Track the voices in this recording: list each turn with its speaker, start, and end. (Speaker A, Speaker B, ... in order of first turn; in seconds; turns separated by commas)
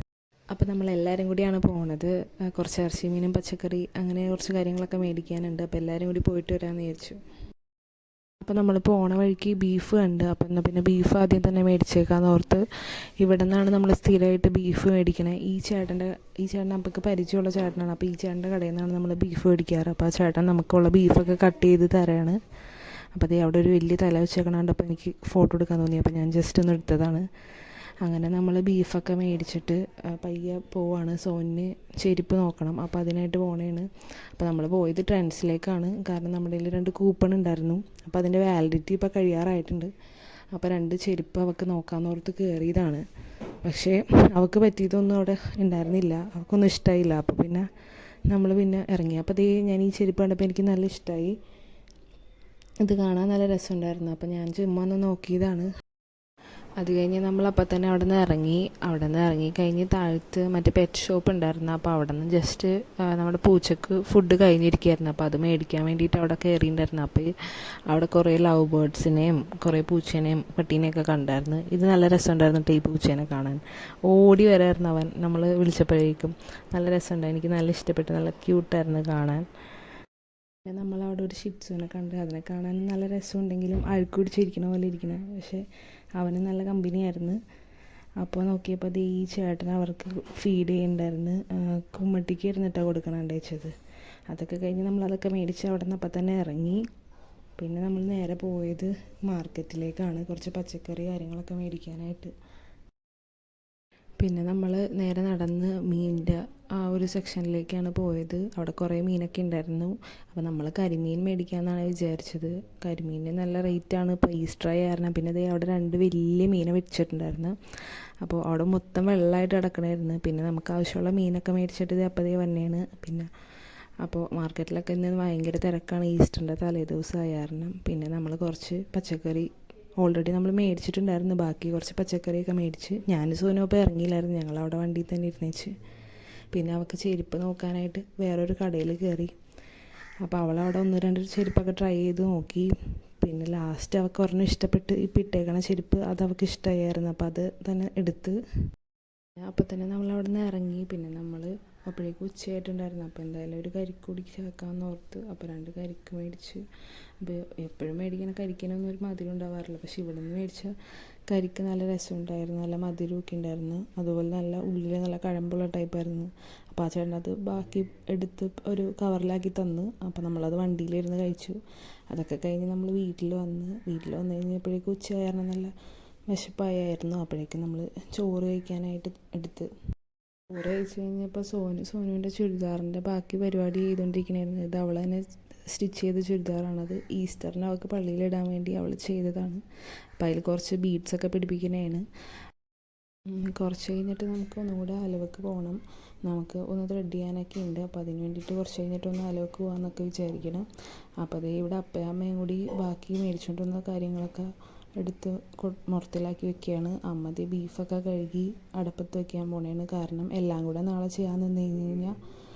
Speaker A: 0.5-7.2, Speaker A: 8.4-22.4, Speaker A: 23.1-27.3, Speaker A: 28.0-39.9, Speaker A: 40.5-43.0, Speaker A: 43.6-47.7, Speaker A: 48.3-51.3, Speaker A: 52.8-55.7, Speaker A: 56.8-79.5, Speaker A: 80.7-85.6, Speaker A: 86.2-87.4, Speaker A: 88.2-93.8, Speaker A: 94.3-96.8, Speaker A: 97.6-102.3, Speaker A: 104.2-123.3, Speaker A: 124.0-135.7, Speaker A: 136.5-139.4, Speaker A: 140.2-148.4, Speaker A: 149.4-156.7, Speaker A: 157.2-160.7, Speaker A: 161.3-175.7, Speaker A: 176.3-179.7, Speaker A: 180.5-189.6, Speaker A: 190.2-192.0, Speaker A: 193.3-200.7, Speaker A: 201.2-212.2